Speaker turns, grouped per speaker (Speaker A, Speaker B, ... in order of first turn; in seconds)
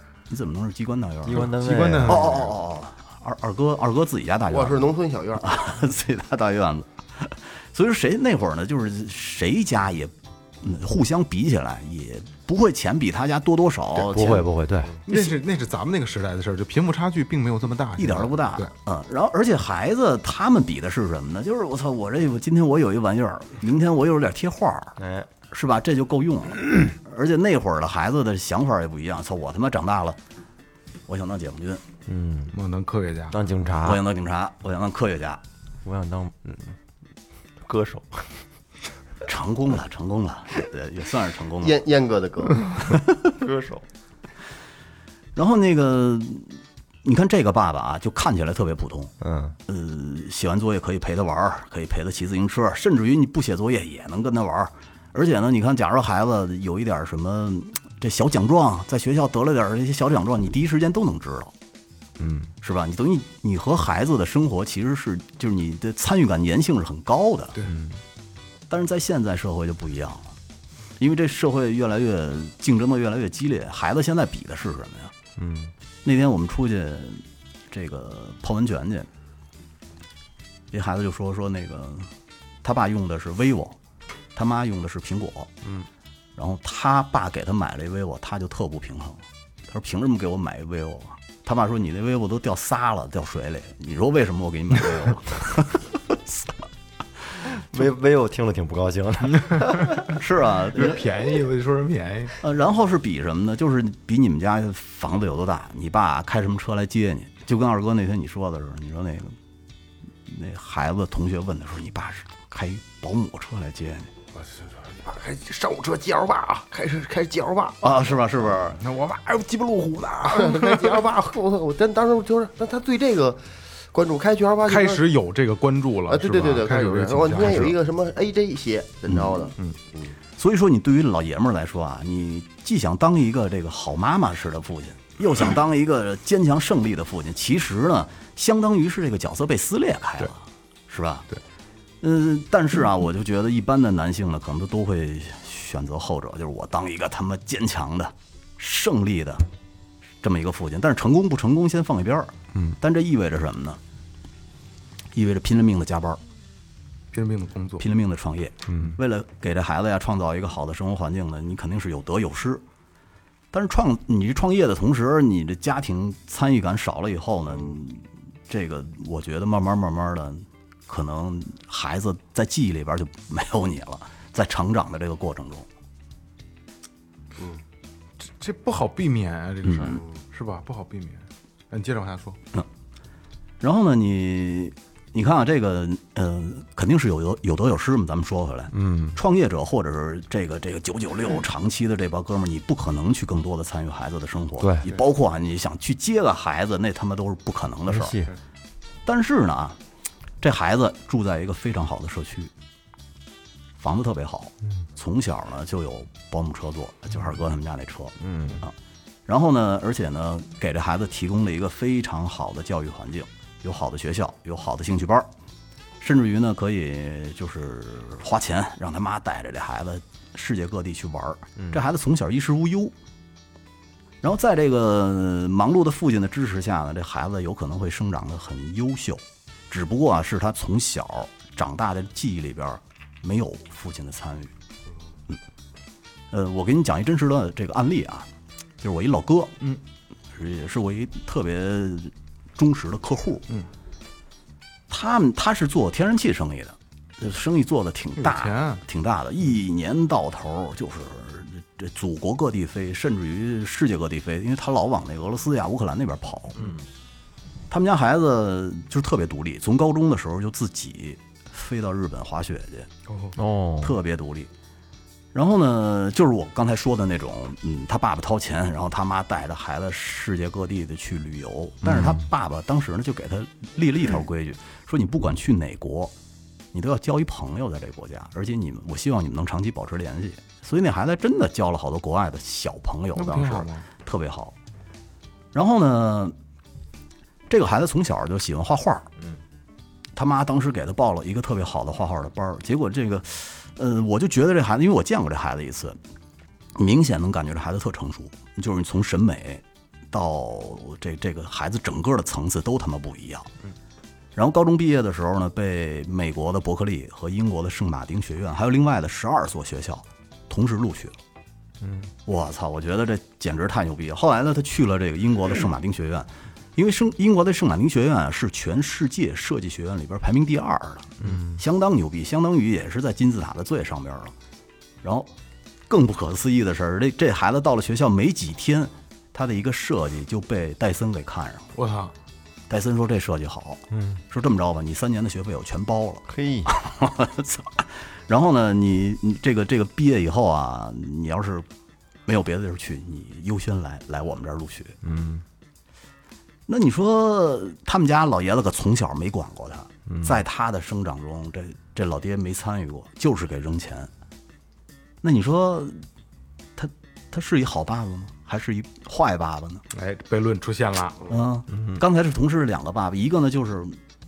Speaker A: 0.3-1.4, 2.0-4.8, 5.4-14.4, 18.0-25.0, 25.5-30.2, 31.1-31.8, 33.8-35.4, 39.2-41.8, 45.4-49.1, 49.7-61.5, 62.6-67.6, 68.7-70.3, 71.0-75.1, 76.0-79.1, 80.7-82.1, 82.6-83.8, 84.3-85.5, 86.4-96.5, 100.2-101.0, 102.4-109.4, 110.3-114.1, 117.8-118.8, 129.1-129.5, 130.4-141.3, 142.0-149.4, 150.2-153.8, 155.1-156.2, 157.8-162.6, 163.5-175.7, 179.7-180.0, 183.6-198.2, 199.1-199.8, 200.4-202.5, 203.8-208.7, 209.3-215.3, 216.0-222.9, 224.2-234.5, 236.3-238.3, 238.8-239.6, 240.3-243.4, 244.9-256.6, 257.7-262.9, 263.8-264.5, 265.3-276.1, 276.7-284.5, 285.5-286.4, 287.5-289.1, 290.1-296.0, 296.8-303.5, 304.4-311.2, 312.3-324.3, 325.0-325.3, 325.9-331.7, 332.7-341.7, 342.3-345.0, 346.7-354.1, 355.2-356.0, 356.8-359.8, 361.3-364.0
Speaker B: 1.3-2.4, 13.9-15.0, 25.0-25.3, 32.1-32.5, 33.3-34.0, 35.9-36.8, 37.6-38.4, 43.3-43.9, 49.2-49.6, 62.2-62.5, 75.4-75.7, 85.6-85.9, 97.7-100.1, 188.7-189.2, 194.6-194.9, 197.9-198.3, 208.2-208.6, 263.4-264.0, 271.8-272.2, 311.8-312.1, 321.2-321.6, 333.9-334.2, 336.3-336.7, 345.0-345.4, 350.1-350.4, 361.7-362.0
Speaker C: 1.3-2.5, 15.1-18.7, 32.5-33.4, 99.5-100.0, 100.8-102.4, 114.4-114.8, 118.8-121.1, 124.7-127.8, 157.1-157.9, 178.2-182.4, 248.2-248.8, 263.1-263.4, 283.2-283.9, 331.8-332.1, 359.9-361.3
Speaker D: 4.5-5.6, 41.6-42.7, 115.0-118.0, 120.3-125.1, 126.1-130.2